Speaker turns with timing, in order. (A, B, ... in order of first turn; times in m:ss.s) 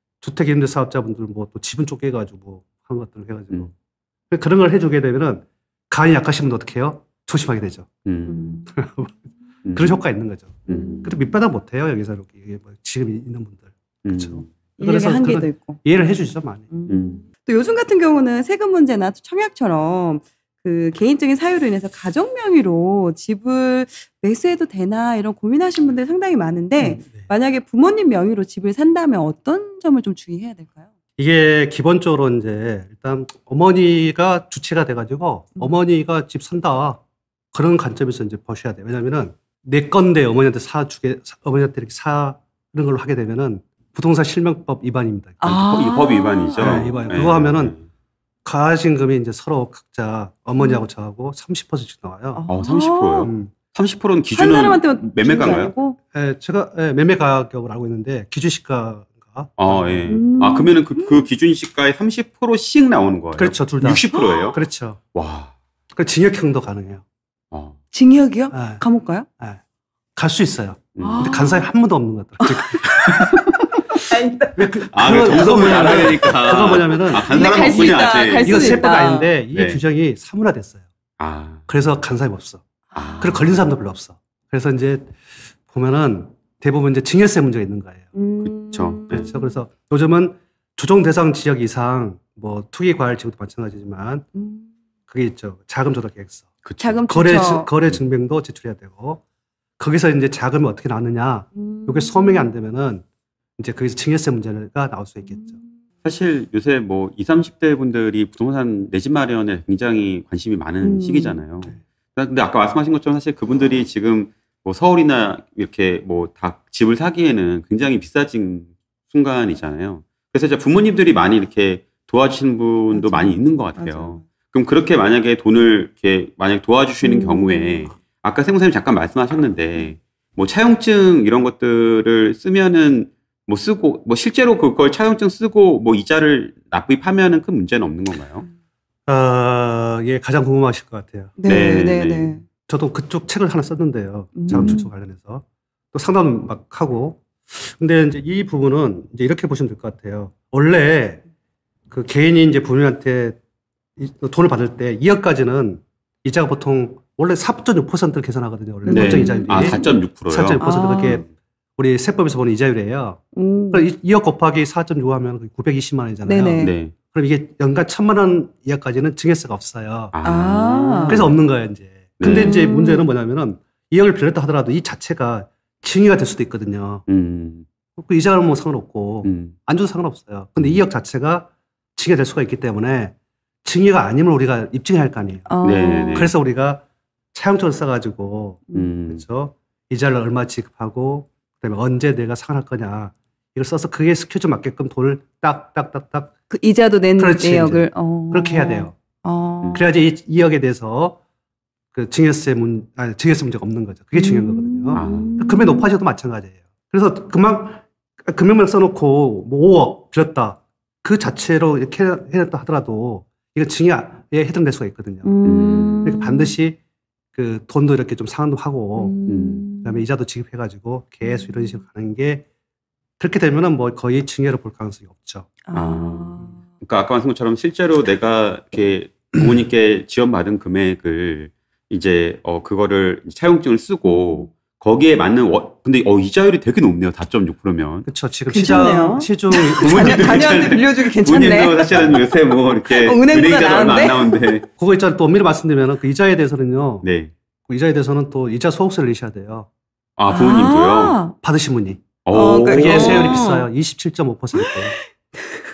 0:00.2-0:03.7 A
0:04.3-0:07.9 A
0:08.0-0:08.6 B
0:08.3-0:08.7 C
0:08.7-0:09.1 A
0:09.6-0:10.0 B
0:09.7-0:16.7 A
0:10.7-0:11.1 B
0:10.7-0:11.1 C
0:14.0-0:14.5 B
0:14.8-0:16.0 C
0:16.7-0:30.9 C
0:16.9-0:17.2 B
0:26.8-0:27.3 A
0:31.2-0:37.0 A
0:37.5-0:45.6 A
0:45.4-0:47.0 C
0:45.5-0:47.8 B
0:46.6-0:47.8 A
0:48.4-0:52.4 A
0:50.6-0:50.8 C
0:52.3-0:53.3 C
0:52.5-0:55.7 B
0:53.2-0:53.5 A
0:54.3-0:56.0 C
0:56.1-1:00.1 A
0:59.6-1:04.6 B
1:00.1-1:01.3 C
1:03.3-1:05.0 A
1:04.1-1:04.5 C
1:05.1-1:05.5 B
1:05.9-1:07.0 A
1:07.9-1:09.3 C
1:08.5-1:08.8 A
1:10.2-1:13.1 A
1:11.0-1:11.3 B
1:11.0-1:11.7 C
1:12.6-1:19.3 C
1:12.8-1:13.3 B
1:14.6-1:20.8 A
1:14.9-1:18.9 B
1:19.5-1:19.8 B
1:21.2-1:21.6 B
1:21.7-1:22.6 A
1:22.9-1:23.4 C
1:22.9-1:23.4 B
1:23.2-1:25.1 A
1:25.7-1:28.0 A
1:28.1-1:29.6 C
1:28.4-1:29.3 B
1:29.1-1:34.2 A
1:34.3-1:34.7 C
1:35.1-1:36.5 A
1:36.6-1:37.0 B
1:36.8-1:37.7 C
1:37.1-1:39.2 A
1:39.8-1:43.0 A
1:41.5-1:42.5 C
1:43.6-1:45.6 A
1:45.3-1:45.6 C
1:46.0-2:18.4 B
1:50.8-1:51.4 C
2:02.9-2:04.2 C
2:07.0-2:07.9 C
2:19.1-2:21.3 A
2:21.4-2:22.4 C
2:21.4-2:22.4 B
2:22.7-2:31.2 A
2:24.4-2:24.9 C
2:24.5-2:24.7 B
2:31.9-2:33.4 A
2:34.0-2:41.2 A
2:38.8-2:39.9 C
2:38.9-2:40.6 B
2:40.6-2:41.2 C
2:41.8-2:43.2 A
2:43.3-2:43.8 C
2:43.7-2:50.1 A
2:46.2-2:46.7 C
2:46.6-2:46.9 B
2:50.1-2:51.3 B
2:50.2-2:51.3 C
2:51.1-2:57.0 A
2:52.2-2:52.6 B
2:52.3-2:53.1 C
2:57.1-2:57.6 B
2:58.0-3:05.5 A
2:59.2-2:59.5 B
3:00.6-3:00.8 B
3:05.5-3:06.3 C
3:05.6-3:06.3 B
3:06.1-3:06.8 A
3:07.3-3:16.4 A
3:08.7-3:09.2 B
3:16.5-3:19.8 C
3:17.2-3:19.0 A
3:19.7-3:21.2 A
3:21.9-3:36.8 A
3:24.1-3:25.9 C
3:24.9-3:25.4 B
3:35.2-3:36.5 C
3:35.4-3:36.1 B
3:37.3-3:39.1 A
3:39.0-3:40.0 C
3:39.3-3:39.6 B
3:39.8-3:42.4 A
3:41.2-3:41.8 C
3:43.2-3:45.5 A
3:45.6-3:46.6 C
3:45.7-3:58.1 B
3:54.1-3:54.4 C
3:58.0-4:00.6 A
3:58.5-4:02.2 C
3:59.7-4:04.7 B
4:02.8-4:04.5 C
4:04.8-4:07.0 A
4:07.0-4:07.3 B
4:07.7-4:09.7 A
4:10.2-4:11.2 B
4:10.3-4:11.3 C
4:11.4-4:14.9 A
4:12.2-4:13.5 B
4:12.3-4:13.7 C
4:14.6-4:15.0 C